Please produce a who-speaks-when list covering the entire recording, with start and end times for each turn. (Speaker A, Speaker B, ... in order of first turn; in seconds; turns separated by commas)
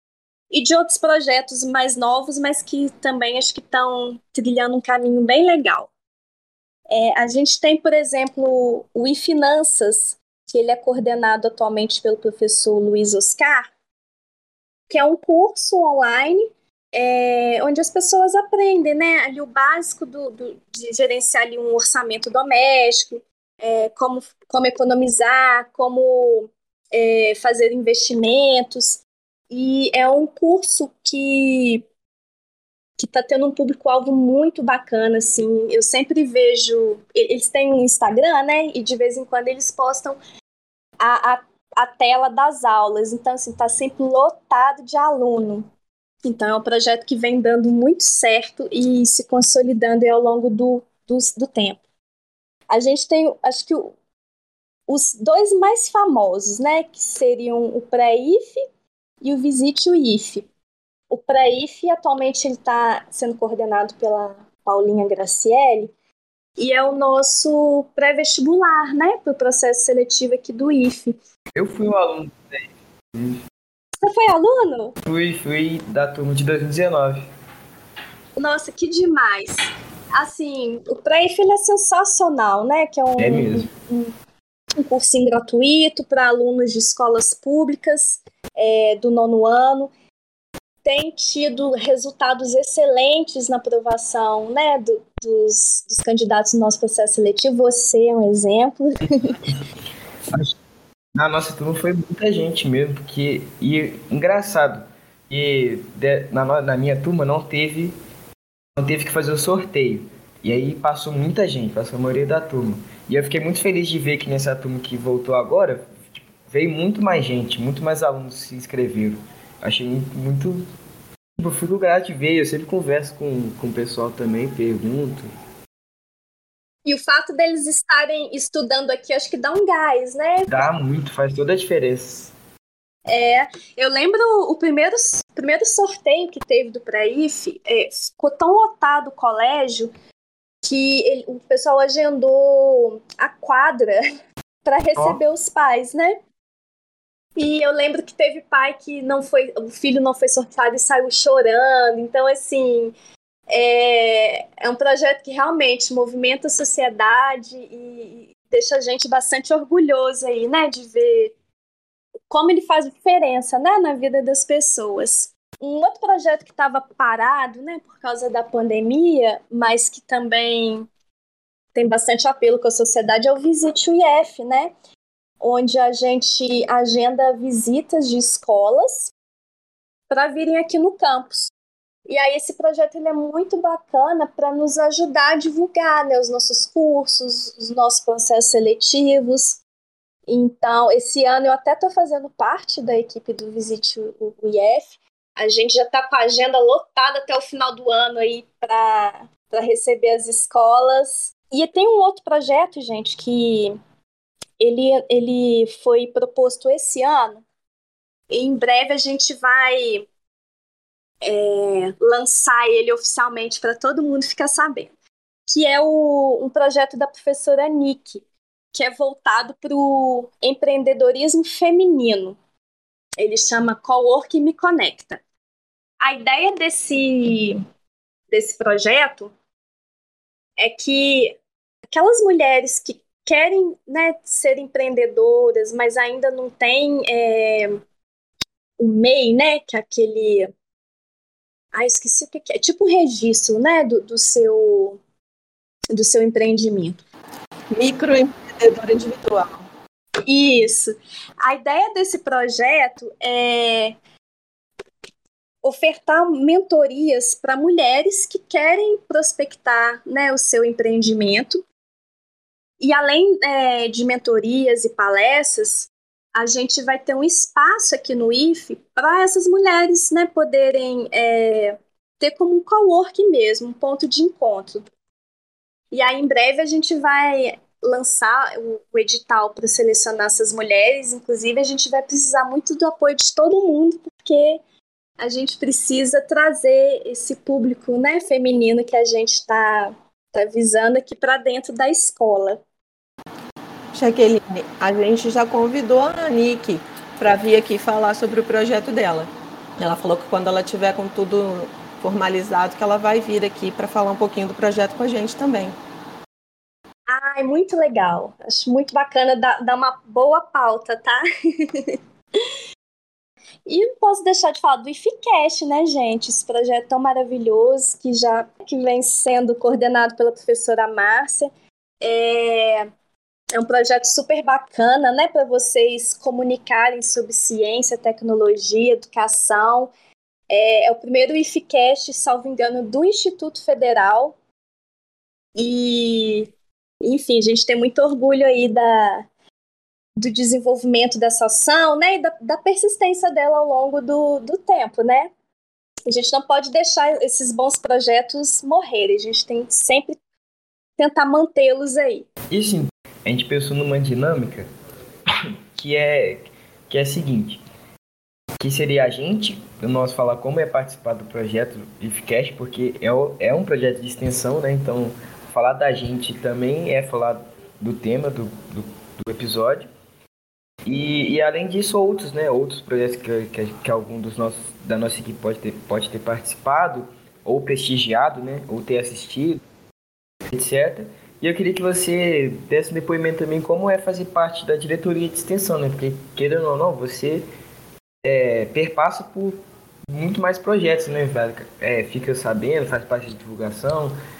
Speaker A: 0.5-5.9, Speaker A: 6.9-13.7, Speaker A: 14.9-31.8, Speaker A: 33.0-40.2, Speaker A: 41.0-45.7, Speaker A: 46.2-51.8, Speaker A: 52.7-53.9, Speaker A: 54.9-58.6, Speaker A: 59.2-60.5, Speaker A: 61.1-65.9, Speaker A: 66.6-71.2, Speaker B: 71.5-73.4, Speaker A: 74.0-75.0, Speaker B: 75.0-77.2, Speaker A: 78.3-84.1, Speaker B: 83.2-83.7, Speaker A: 84.8-89.9, Speaker A: 90.8-99.3, Speaker B: 99.0-99.6, Speaker B: 101.2-108.0, Speaker B: 108.8-120.6, Speaker B: 121.4-125.3, Speaker A: 126.8-130.6, Speaker B: 130.5-132.3, Speaker A: 133.1-139.9, Speaker A: 140.6-144.0, Speaker A: 144.6-146.2, Speaker A: 147.3-152.9, Speaker A: 153.5-161.3, Speaker A: 162.3-170.9, Speaker A: 171.7-174.7, Speaker A: 175.4-179.1, Speaker A: 180.1-181.5, Speaker A: 182.1-189.6, Speaker A: 190.3-203.8, Speaker A: 204.6-207.4, Speaker A: 208.3-210.1, Speaker A: 211.2-214.9, Speaker A: 215.5-222.4, Speaker A: 223.2-225.2, Speaker A: 226.0-227.6, Speaker A: 228.3-229.3, Speaker A: 230.6-231.4, Speaker A: 231.9-237.8, Speaker A: 238.8-240.5, Speaker A: 241.7-245.0, Speaker A: 245.9-247.0, Speaker C: 247.7-249.6, Speaker A: 250.2-253.9, Speaker A: 255.6-261.6, Speaker A: 262.8-274.9, Speaker A: 275.9-284.6, Speaker A: 285.2-292.6, Speaker C: 293.9-305.8, Speaker A: 307.1-312.0, Speaker A: 313.6-321.5, Speaker A: 322.0-322.9, Speaker A: 323.5-329.9, Speaker A: 330.5-334.4, Speaker A: 335.6-339.2, Speaker A: 340.2-345.3, Speaker A: 346.1-350.2, Speaker A: 351.0-352.3, Speaker B: 352.5-354.7, Speaker B: 355.7-357.6, Speaker B: 358.6-369.9, Speaker B: 370.9-379.6, Speaker B: 380.5-387.4, Speaker B: 388.2-389.6, Speaker B: 390.1-394.2